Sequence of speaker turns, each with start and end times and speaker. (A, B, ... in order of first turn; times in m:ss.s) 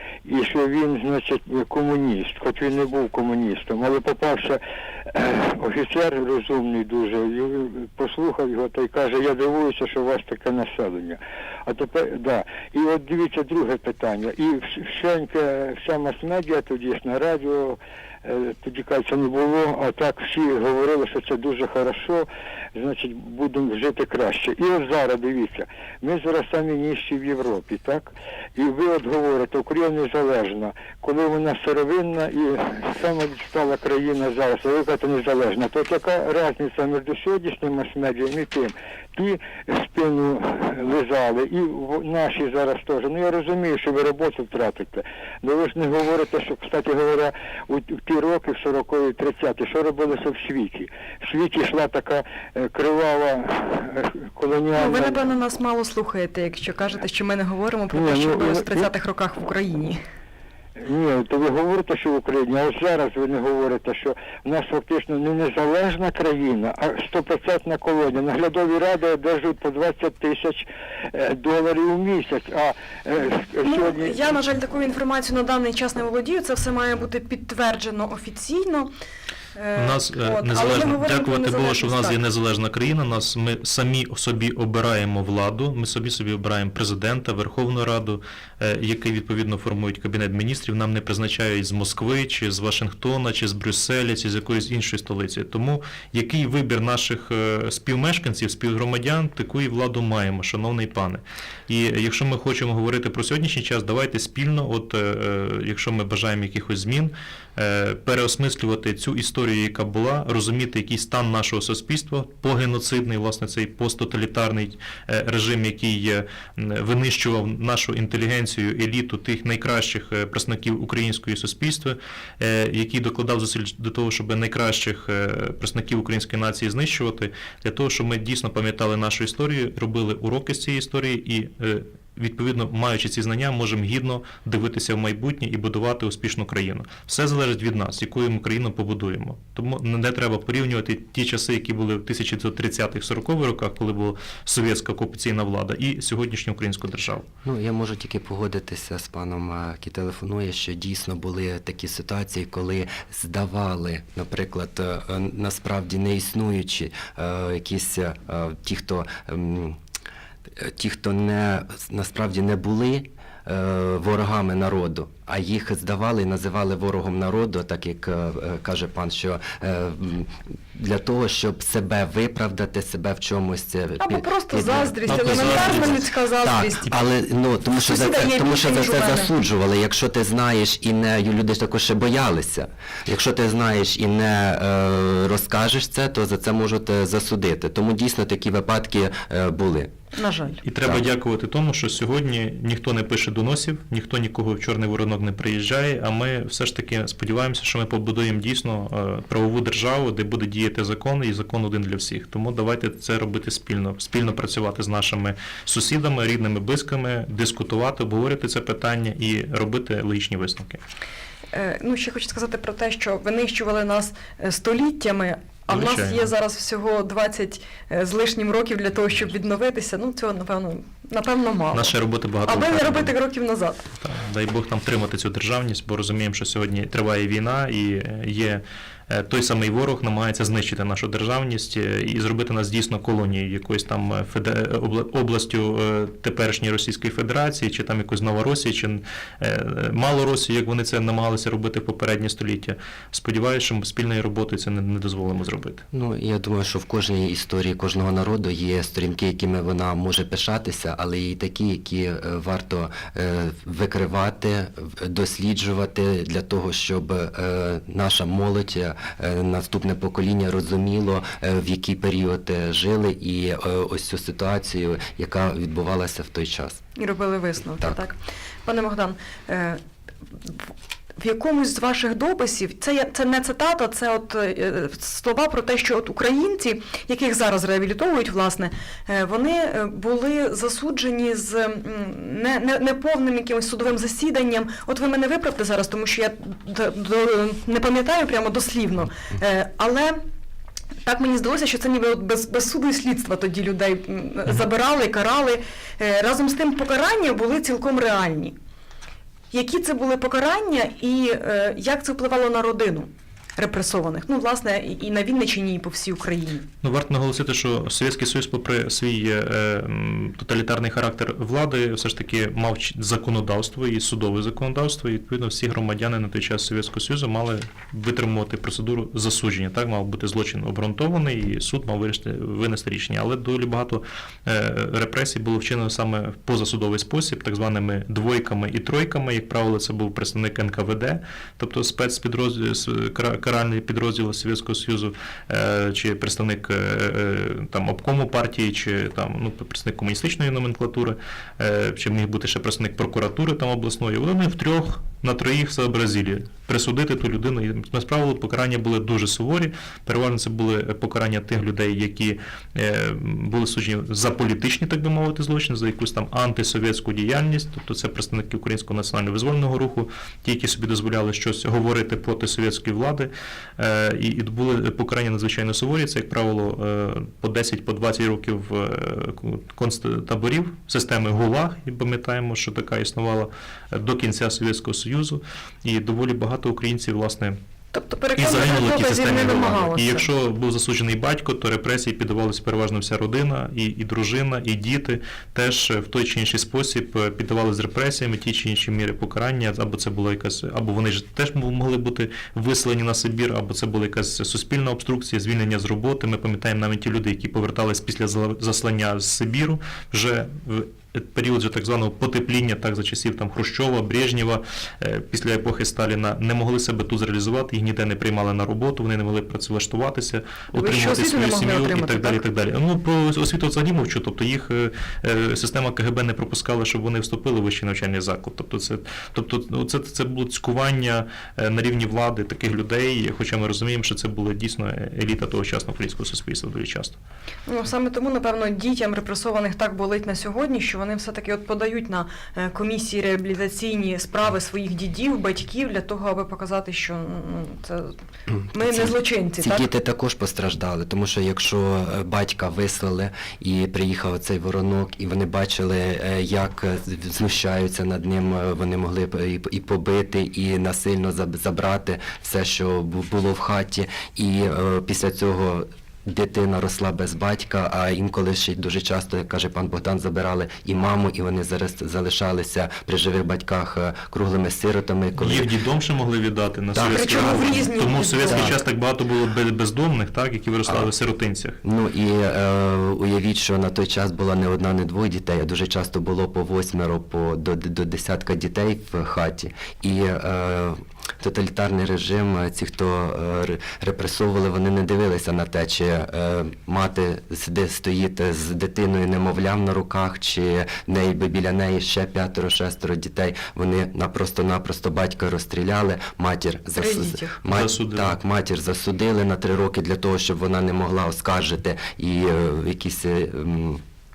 0:00.2-0:55.2 A
0:54.8-1:00.0 B
0:57.9-0:58.9 A
1:00.8-1:14.3 A
1:13.6-1:18.9 B
1:19.5-1:22.2 B
1:19.8-2:27.2 C
2:27.4-2:39.8 D
2:40.6-3:09.9 D
2:54.0-2:56.9 B
2:55.1-2:56.0 C
2:57.7-2:59.3 B
3:10.1-3:10.6 B
3:10.6-3:30.8 C
3:31.5-3:41.9 B
3:35.7-3:36.3 C
3:41.7-3:43.1 C
3:42.4-3:43.9 B
3:44.0-4:05.8 C
4:05.9-4:26.8 D
4:27.0-4:29.8 B
4:30.4-4:50.2 B
4:51.0-4:58.6 B
4:59.5-5:06.6 B
5:06.8-6:17.6 C
6:17.9-6:20.3 B
6:18.4-7:07.2 C
6:50.7-6:52.4 B
7:07.7-7:18.1 B
7:18.7-7:19.9 B
7:18.7-7:45.7 D
7:45.4-7:51.8 C
7:46.9-7:47.9 D
7:47.1-7:48.7 B
7:48.4-7:48.8 D
7:51.8-8:24.0 D
8:17.0-8:17.6 B
8:17.7-8:18.4 C